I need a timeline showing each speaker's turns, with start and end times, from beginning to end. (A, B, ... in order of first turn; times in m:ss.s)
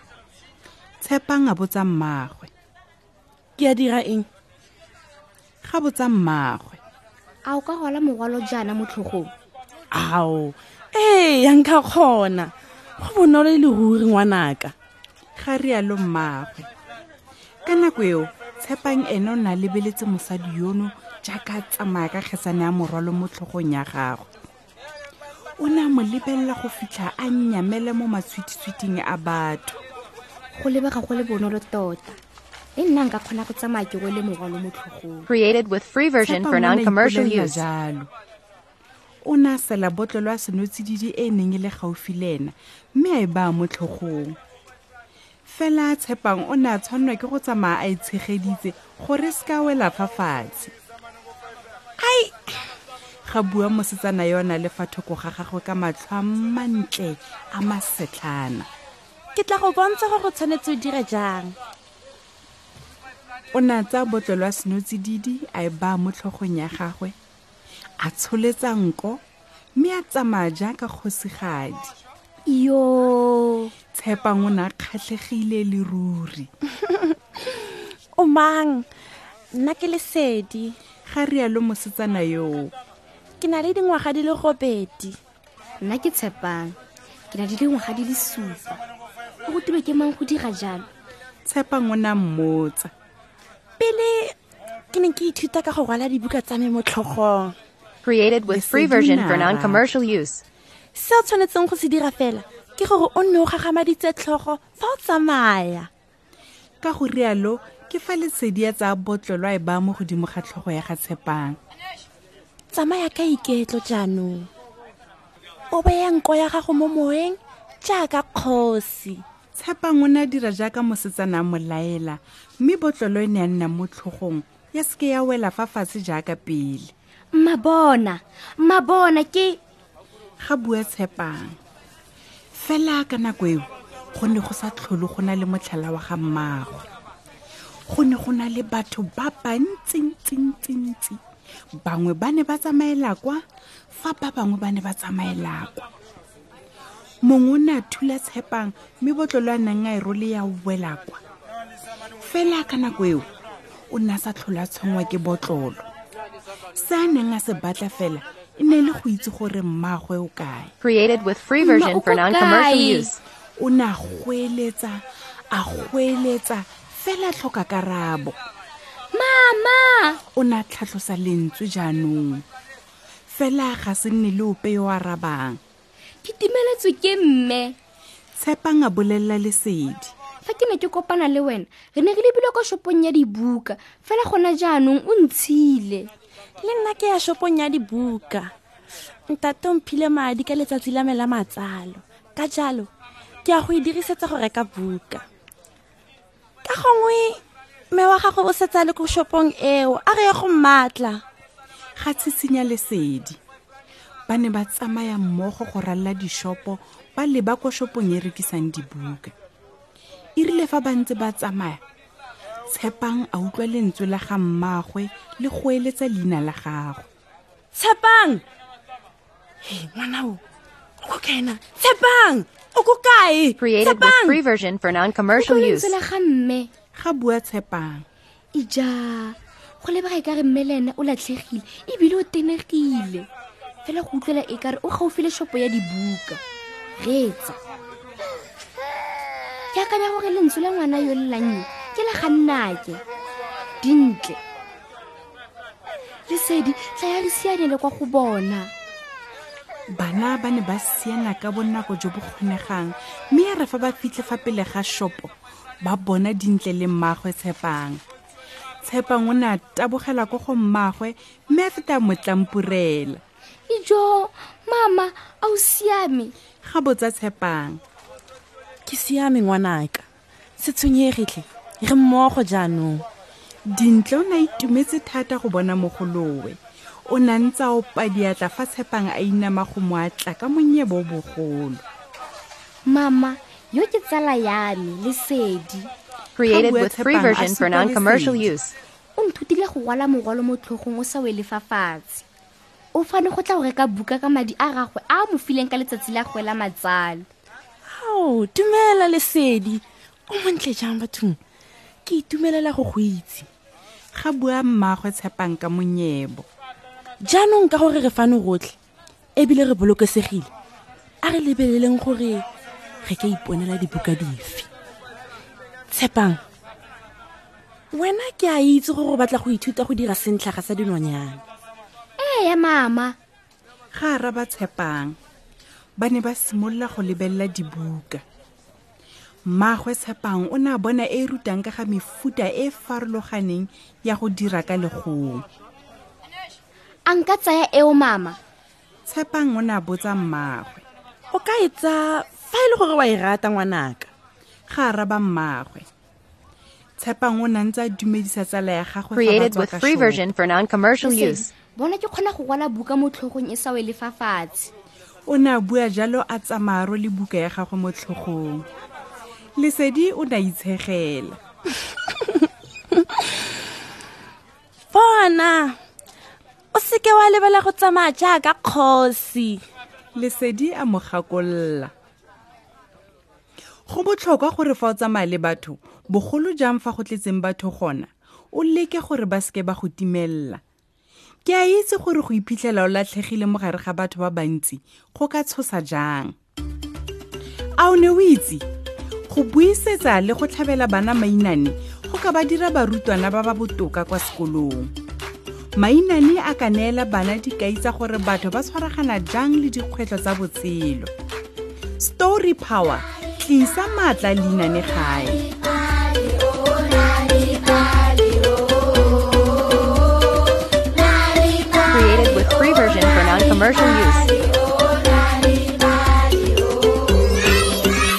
0:01.0-0:02.5 A
0:03.6-0:04.3 B
0:05.6-0:06.8 A
0:07.4-0:09.3 C
0:09.9-0:14.7 B
0:15.4-0:16.7 A
0:17.6-0:24.3 A
0:25.6-0:29.8 A
0:30.5-0:32.2 C
0:32.8-0:35.3 C
0:35.3-0:37.6 D
0:36.2-0:38.1 A
0:39.2-0:44.4 A
0:45.5-0:50.7 A
0:52.0-0:52.5 B
0:53.2-0:58.7 A
0:59.4-1:01.6 B
1:03.5-1:07.2 A
1:08.0-1:09.2 A
1:09.8-1:11.9 A
1:12.5-1:13.7 C
1:13.9-1:16.5 A
1:16.9-1:18.9 B
1:19.5-1:20.8 B
1:21.1-1:22.7 A
1:23.4-1:25.2 B
1:25.8-1:26.8 C
1:27.3-1:28.8 C
1:29.5-1:30.9 C
1:31.4-1:32.9 A
1:33.8-1:34.4 B
1:34.9-1:37.6 B
1:38.0-1:40.4 D
1:38.5-1:39.9 A
1:41.0-1:45.9 B
1:46.8-1:51.6 A
1:52.7-1:54.5 B
1:55.7-1:59.2 B
1:59.6-2:06.9 A
2:07.3-2:09.6 C
2:10.4-2:11.6 A
2:12.5-2:16.9 A
2:17.9-2:21.2 A
2:21.8-2:25.9 A
2:27.2-2:31.2 A
2:32.2-2:33.3 A
2:33.9-2:35.9 A
2:36.8-2:40.7 A
2:40.8-2:43.2 D
2:41.6-2:43.1 C
2:43.6-2:48.4 A
2:49.1-2:50.2 C
2:50.3-2:52.4 A
2:53.3-2:55.6 A
2:56.2-2:57.8 C
2:58.4-3:00.1 A
3:00.4-3:06.1 C
3:06.6-3:08.5 B
3:09.3-3:12.9 B
3:13.4-3:15.2 B
3:16.6-3:17.4 B
3:17.9-3:21.2 B
3:22.0-3:23.4 A
3:24.3-3:29.3 A
3:30.4-3:31.8 A
3:32.7-3:37.1 A
3:37.8-3:38.4 B
3:39.6-3:40.4 B
3:41.0-3:44.4 B
3:43.6-3:45.9 D
3:45.4-3:46.7 C
3:47.0-3:48.0 A
3:48.6-3:53.3 C
3:53.8-3:56.4 C
3:57.0-3:57.6 C
3:59.7-4:03.0 C
4:03.8-4:04.4 C
4:06.3-4:08.7 C
4:09.9-4:18.0 A
4:18.8-4:23.2 A
4:23.7-4:26.3 C
4:26.6-4:27.8 A
4:28.9-4:30.1 B
4:30.6-4:33.0 B
4:33.7-4:41.8 A
4:42.9-4:45.9 C
4:46.4-4:48.8 D
4:46.4-4:48.5 A
4:49.2-4:52.2 C
4:53.0-4:57.3 C
4:57.9-5:01.4 B
5:02.1-5:03.5 B
5:04.2-5:06.5 A
5:07.2-5:08.7 B
5:09.4-5:10.5 B
5:11.2-5:12.4 B
5:13.0-5:14.7 B
5:15.9-5:16.4 B
5:17.9-5:21.4 B
5:22.2-5:23.2 C
5:23.9-5:25.2 A
5:26.0-5:28.2 A
5:29.5-5:35.4 A
5:37.1-5:38.4 C
5:39.1-5:40.8 A
5:41.3-5:44.1 B
5:44.7-5:45.9 A
5:47.0-5:50.2 A
5:49.2-5:51.5 D
5:51.0-5:54.7 C
5:55.3-5:58.6 A
5:59.6-6:01.4 A
6:03.0-6:03.3 B
6:04.9-6:05.8 B
6:06.7-6:09.6 B
6:10.2-6:11.9 A
6:13.9-6:20.6 A
6:21.4-6:26.3 A
6:27.8-6:28.6 A
6:29.3-6:34.9 A
6:35.8-6:41.1 A
6:42.0-6:45.5 A
6:47.0-6:48.2 C
6:51.8-6:54.4 D